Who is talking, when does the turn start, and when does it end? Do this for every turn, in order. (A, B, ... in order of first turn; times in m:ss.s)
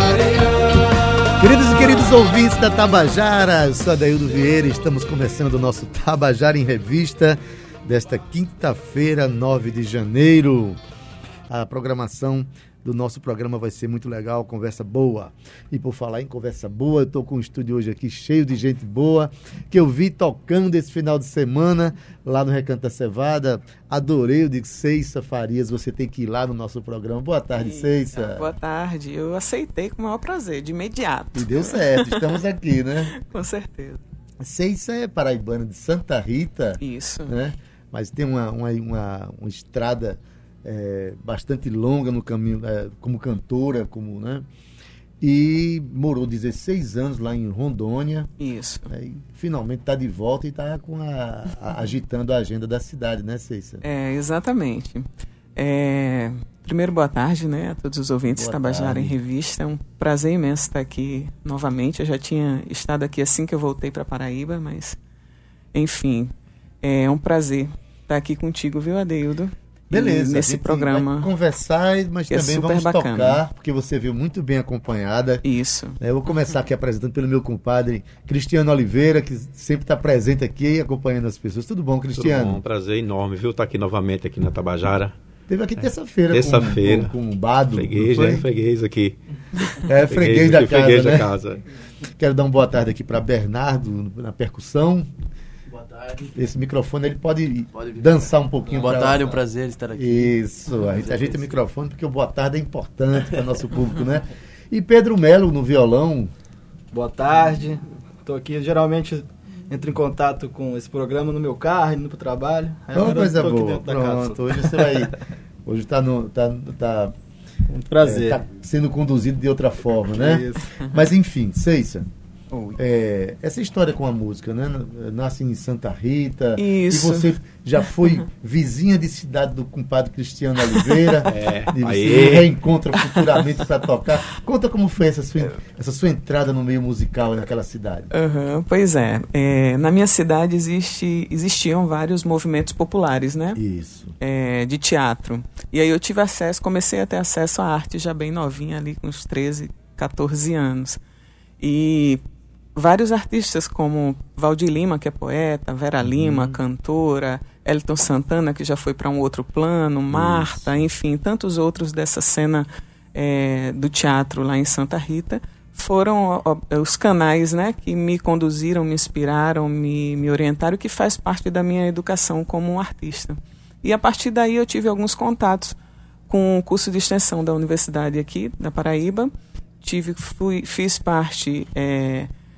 0:01.4-0:10.8 A
0:11.5-0:28.5 A
0:27.5-0:32.4 B
0:31.3-0:33.1 A
0:33.1-0:34.0 B
0:34.4-0:44.4 A
0:36.8-0:37.4 B
0:45.2-0:48.3 A
0:48.4-0:48.9 B
0:48.9-0:53.8 A
0:53.8-1:05.0 B
0:58.3-0:59.2 A
1:05.7-1:11.3 B
1:09.9-1:15.4 A
1:12.3-1:13.4 B
1:15.4-1:16.0 B
1:16.0-1:22.6 A
1:22.2-1:25.1 C
1:25.5-1:28.4 A
1:26.3-1:27.1 C
1:27.7-1:29.2 C
1:29.7-1:31.6 C
1:29.8-1:31.3 A
1:32.2-1:35.1 A
1:36.3-1:39.4 A
1:37.8-1:40.4 D
1:39.9-1:46.3 A
1:40.9-1:41.4 D
1:46.9-1:55.0 E
1:52.9-1:57.1 A
1:57.7-2:02.1 A
1:57.9-1:58.4 E
2:00.1-2:00.6 E
2:02.5-2:02.8 B
2:02.8-2:18.1 A
2:06.6-2:07.3 B
2:11.3-2:12.5 C
2:18.1-2:23.6 B
2:23.6-2:24.2 A
2:24.2-2:31.0 B
2:31.6-2:32.2 B
2:32.7-2:55.8 B
2:36.0-2:36.6 A
2:40.1-2:40.8 A
2:56.3-2:59.3 B
2:59.8-3:02.3 B